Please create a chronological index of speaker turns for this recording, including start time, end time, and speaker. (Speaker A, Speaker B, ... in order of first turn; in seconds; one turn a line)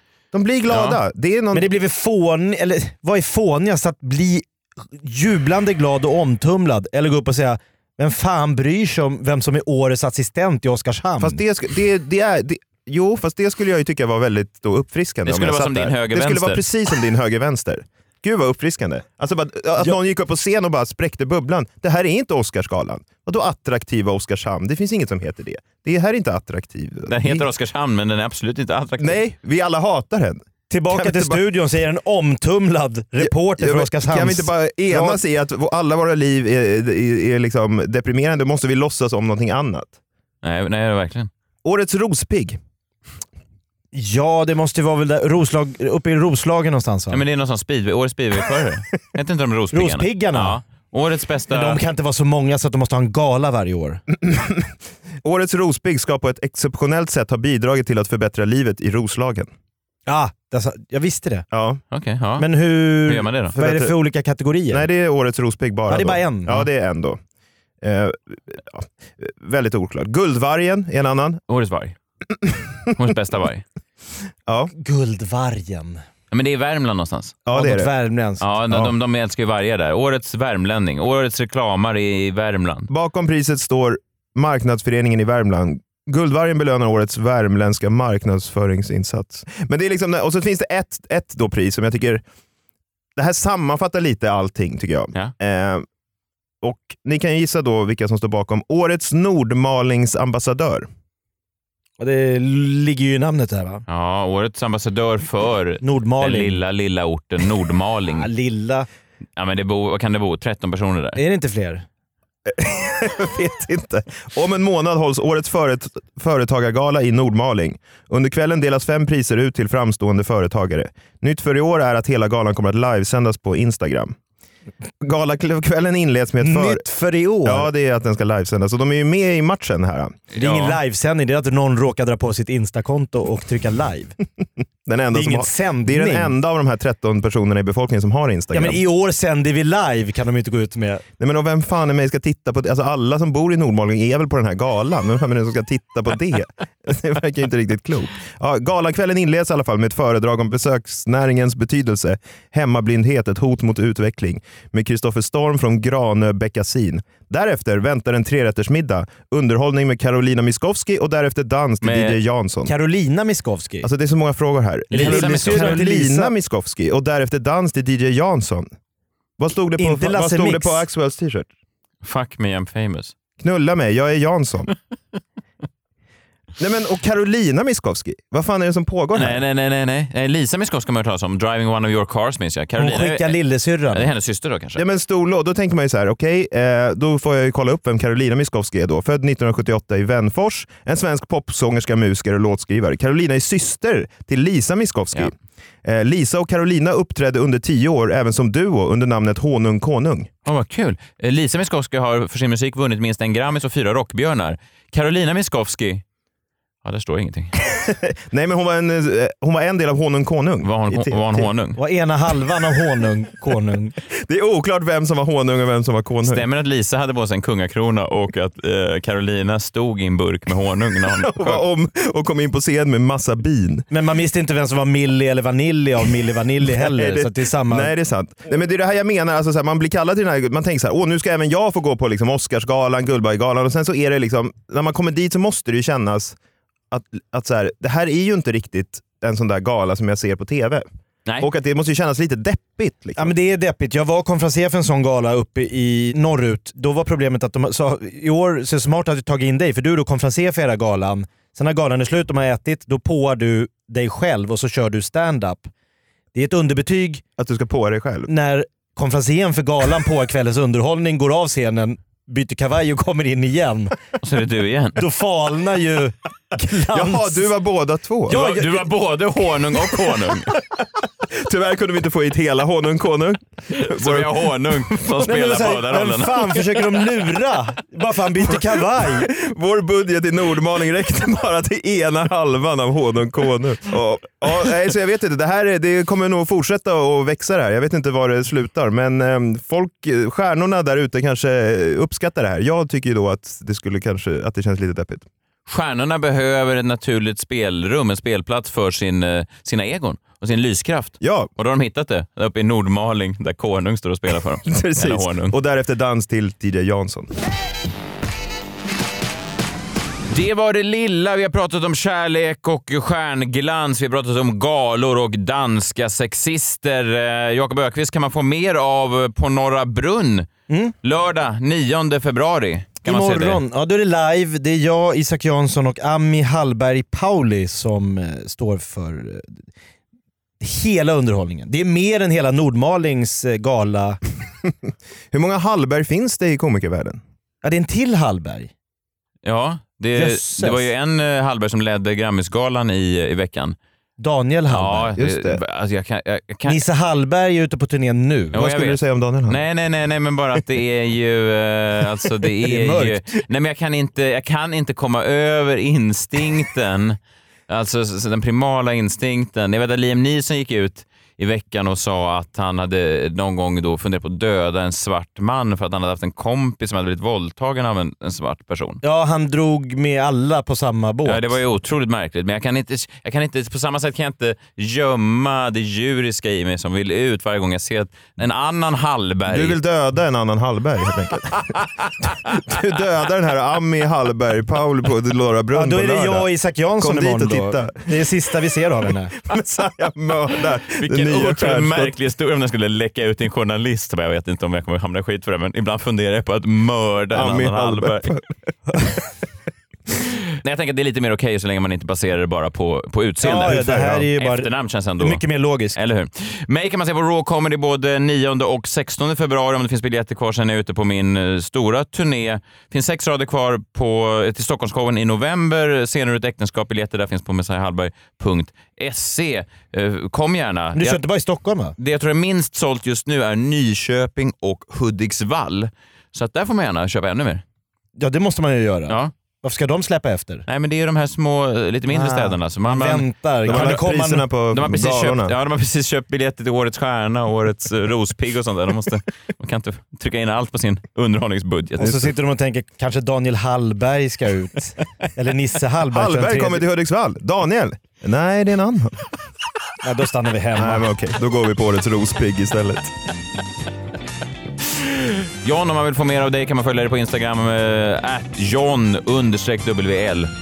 Speaker A: 0.3-1.7
Speaker B: 0.7-1.0
Speaker C: 1.5-11.4
Speaker A: 11.2-27.5
Speaker B: 15.2-16.6
Speaker B: 27.1-29.2
Speaker A: 29.0-30.4
Speaker C: 30.7-35.2
Speaker A: 30.9-31.4
Speaker A: 33.2-40.0
Speaker B: 40.4-41.3
Speaker A: 41.6-42.6
Speaker C: 43.9-47.2
Speaker B: 47.1-51.8
Speaker C: 49.7-50.6
Speaker C: 51.5-54.0
Speaker A: 54.2-54.7
Speaker A: 55.2-59.5
Speaker C: 60.1-61.4
Speaker A: 61.5-61.8
Speaker B: 61.9-63.5
Speaker C: 62.4-64.9
Speaker A: 63.5-63.9
Speaker A: 64.7-67.2
Speaker C: 65.9-66.7
Speaker A: 67.8-71.4
Speaker B: 71.5-72.0
Speaker B: 72.9-73.6
Speaker A: 74.5-74.7
Speaker C: 74.8-76.0
Speaker B: 76.3-77.4
Speaker A: 77.5-77.9
Speaker C: 77.5-78.4
Speaker B: 78.4-82.9
Speaker A: 82.9-92.2
Speaker A: 93.2-95.8
Speaker A: 96.6-100.9
Speaker C: 102.0-103.8
Speaker B: 103.9-108.3
Speaker C: 105.8-106.6
Speaker C: 108.1-108.9
Speaker B: 109.4-111.2
Speaker C: 111.2-111.8
Speaker A: 112.5-124.2
Speaker A: 125.0-126.8
Speaker C: 126.4-127.7
Speaker A: 127.4-130.2
Speaker B: 130.3-130.8
Speaker C: 130.3-134.2
Speaker A: 134.8-138.8
Speaker C: 135.1-136.3
Speaker C: 138.5-141.0
Speaker A: 141.2-162.7
Speaker B: 161.8-162.2
Speaker C: 162.7-163.9
Speaker A: 163.8-168.7
Speaker C: 164.9-166.3
Speaker B: 164.9-165.9
Speaker A: 169.4-171.5
Speaker C: 169.8-170.8
Speaker B: 172.0-173.1
Speaker A: 173.4-174.7
Speaker A: 176.6-179.4
Speaker B: 179.1-183.4
Speaker C: 182.8-184.1
Speaker B: 183.9-184.8
Speaker A: 184.8-195.3
Speaker A: 195.8-200.3
Speaker B: 200.4-206.0
Speaker B: 206.8-207.5
Speaker A: 207.7-211.5
Speaker B: 210.6-211.8
Speaker C: 211.8-213.9
Speaker A: 214.2-216.4
Speaker B: 216.2-221.6
Speaker A: 221.2-223.8
Speaker C: 223.9-227.9
Speaker A: 226.8-236.3
Speaker A: 236.9-240.8
Speaker A: 241.4-243.3
Speaker C: 243.2-255.7
Speaker C: 256.3-257.2
Speaker A: 257.4-258.3
Speaker C: 258.3-263.9
Speaker B: 264.2-265.0
Speaker C: 264.9-267.5
Speaker A: 266.9-268.4
Speaker C: 268.3-268.8
Speaker B: 268.3-270.5
Speaker A: 271.3-274.9
Speaker B: 273.7-277.0
Speaker C: 275.2-279.3
Speaker A: 278.9-295.2
Speaker B: 295.7-305.5
Speaker A: 301.2-301.5
Speaker A: 304.7-307.3
Speaker B: 310.3-320.5
Speaker C: 320.7-320.9
Speaker B: 321.0-323.6
Speaker C: 323.0-329.6
Speaker C: 330.6-334.2
Speaker A: 335.3-337.2
Speaker C: 337.6-338.7
Speaker B: 339.4-343.8
Speaker C: 340.1-340.9
Speaker C: 344.2-345.1
Speaker B: 344.7-346.8
Speaker A: 345.2-345.6
Speaker C: 346.6-348.6
Speaker A: 348.5-349.6
Speaker B: 348.5-357.2
Speaker C: 352.6-353.2
Speaker B: 357.7-369.0
Speaker C: 369.0-371.6
Speaker B: 371.2-379.8
Speaker A: 379.5-386.5
Speaker C: 385.7-389.3
Speaker A: 387.0-388.2
Speaker A: 389.4-392.1
Speaker B: 390.9-398.3
Speaker A: 397.3-398.5
Speaker B: 400.6-405.4
Speaker C: 403.4-404.7
Speaker C: 405.2-405.9
Speaker B: 405.9-421.2
Speaker C: 420.9-421.9
Speaker B: 422.0-427.6
Speaker C: 428.2-430.6
Speaker B: 430.7-434.1
Speaker C: 432.1-434.4
Speaker A: 433.6-435.5
Speaker B: 434.7-442.3
Speaker C: 442.0-446.8
Speaker A: 446.1-449.2
Speaker C: 450.0-451.0
Speaker A: 450.8-453.1
Speaker B: 454.9-460.5